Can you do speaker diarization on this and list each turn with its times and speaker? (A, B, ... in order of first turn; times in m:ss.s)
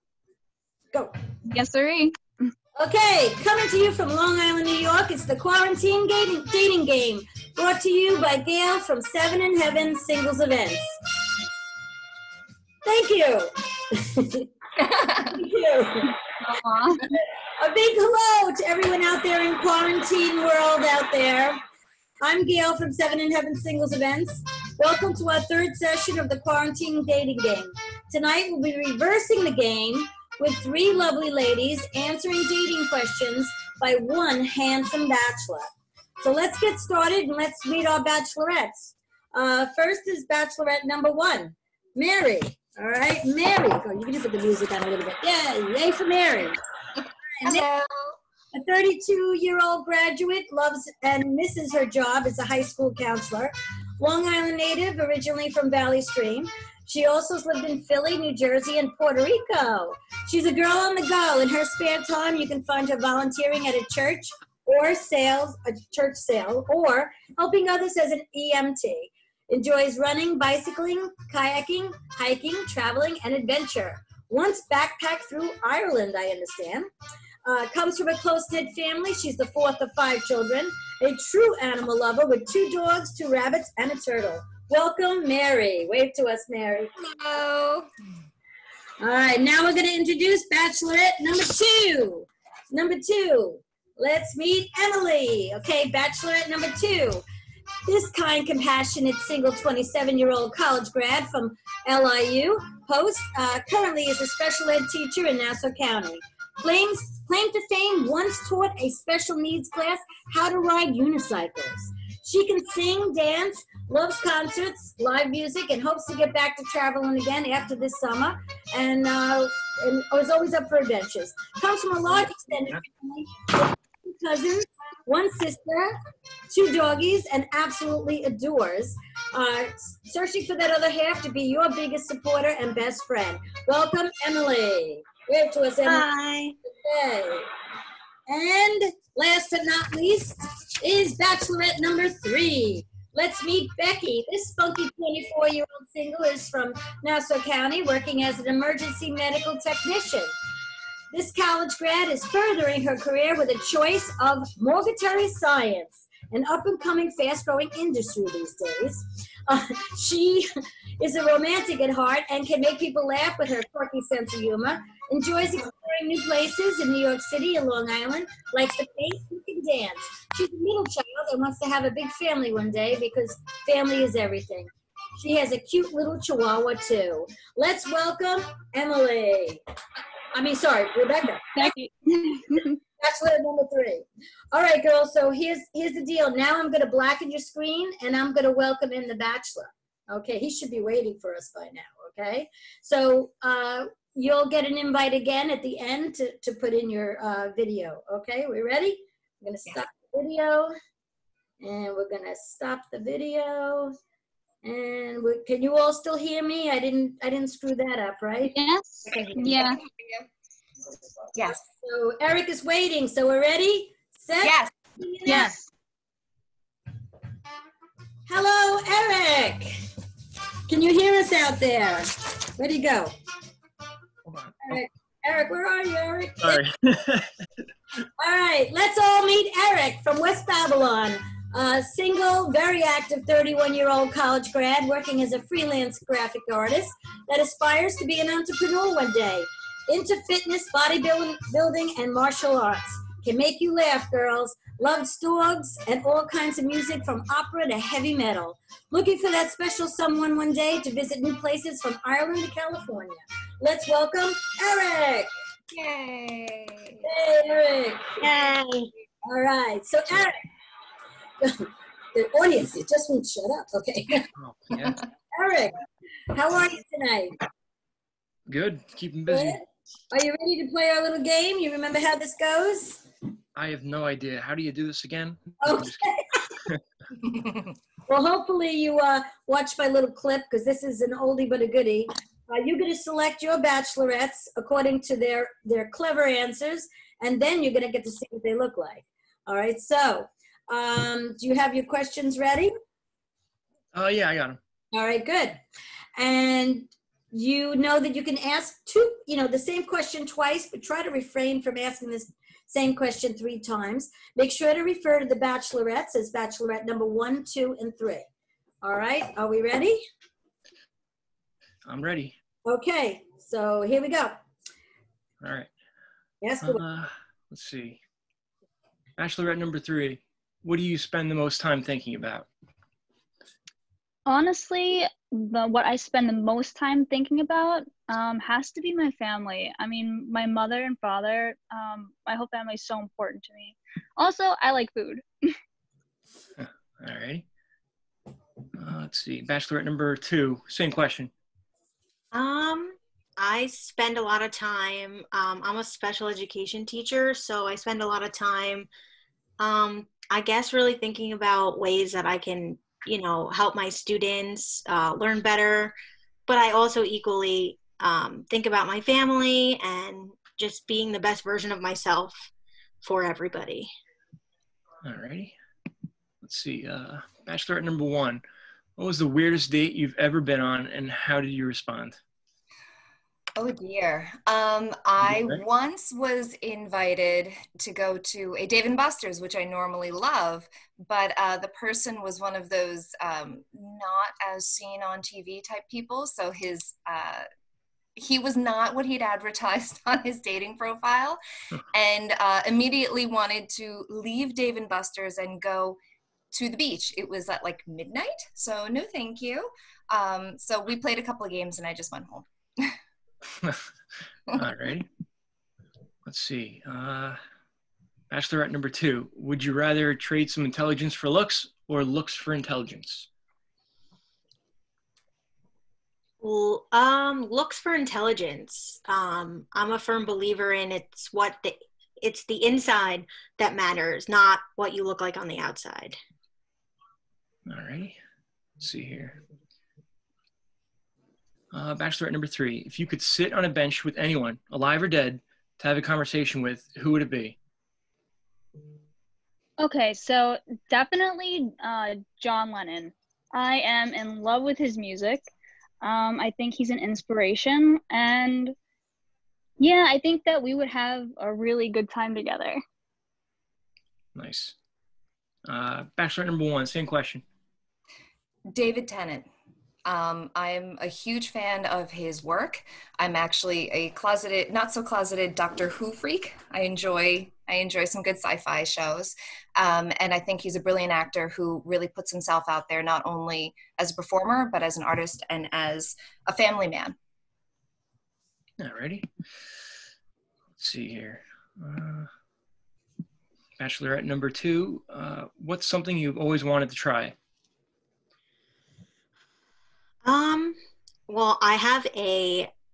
0:01.5-0:02.2 A
0:02.8-0:10.8 B
0:12.8-0:14.5 B
0:14.8-0:15.2 C
0:15.2-0:16.2 B
0:16.7-0:17.0 A
0:17.1-0:21.6 B
0:22.2-0:35.7 B
0:36.2-0:46.6 B
0:47.4-0:47.6 B
0:47.4-0:48.2 C
0:48.5-1:16.9 B
1:17.4-1:26.9 B
1:27.0-1:27.9 C
1:29.0-1:37.2 B
1:37.9-2:05.9 B
2:06.5-2:16.1 B
2:15.8-2:16.6 D
2:16.7-2:17.5 B
2:18.3-2:30.3 B
2:31.1-2:40.5 B
2:41.0-2:59.6 B
3:00.3-3:01.7 B
3:01.6-3:02.8 A
3:03.0-3:20.7 B
3:21.6-3:23.9 B
3:24.6-3:28.6 B
3:28.5-3:29.8 A
3:29.1-3:30.2 C
3:31.4-3:31.6 C
3:31.5-3:35.6 B
3:34.4-3:34.7 C
3:35.3-3:35.7 A
3:38.3-3:39.8 B
3:40.7-3:43.1 B
3:44.3-3:44.8 E
3:44.6-3:46.6 B
3:46.4-3:47.4 E
3:48.2-4:15.3 B
4:15.7-4:17.0 C
4:17.0-4:18.2 B
4:18.2-4:18.9 D
4:19.3-4:20.4 B
4:21.4-4:24.3 B
4:24.4-4:25.0 E
4:25.3-4:25.7 B
4:26.3-4:27.4 B
4:28.5-4:29.6 E
4:29.3-4:33.0 B
4:33.6-4:36.0 E
4:35.6-4:36.4 B
4:38.1-4:52.7 B
4:53.9-4:54.6 E
4:54.9-4:55.6 B
4:56.2-5:08.3 B
5:08.8-5:10.0 B
5:11.8-5:12.4 E
5:12.7-5:14.4 B
5:15.4-5:15.7 E
5:16.4-5:16.8 B
5:16.6-5:18.0 E
5:19.2-5:22.5 E
5:24.3-5:35.5 A
5:36.6-5:37.5 E
5:38.8-5:41.3 E
5:42.3-5:48.9 D
5:49.6-5:55.9 D
5:56.5-6:02.5 D
6:03.0-6:03.9 D
6:05.0-6:05.6 E
6:06.4-6:08.4 E
6:09.0-6:12.2 E
6:13.6-6:27.4 C
6:15.3-6:15.6 E
6:28.2-6:31.4 C
6:31.9-6:36.0 C
6:36.5-6:42.9 C
6:44.5-6:45.1 E
6:46.2-6:47.4 E
6:48.3-6:53.3 E
6:56.4-7:06.2 D
7:07.7-7:08.2 E
7:08.8-7:09.4 E
7:11.7-7:17.6 E
7:19.8-7:25.5 A
7:26.0-7:28.8 A
7:29.8-7:32.8 A
7:34.4-7:34.8 E
7:35.7-7:37.4 E
7:38.7-7:39.5 C
7:40.1-7:57.2 C
7:58.8-7:59.3 E
8:00.8-8:02.3 E
8:03.8-8:07.4 E
8:10.2-8:10.8 D
8:11.3-8:12.7 D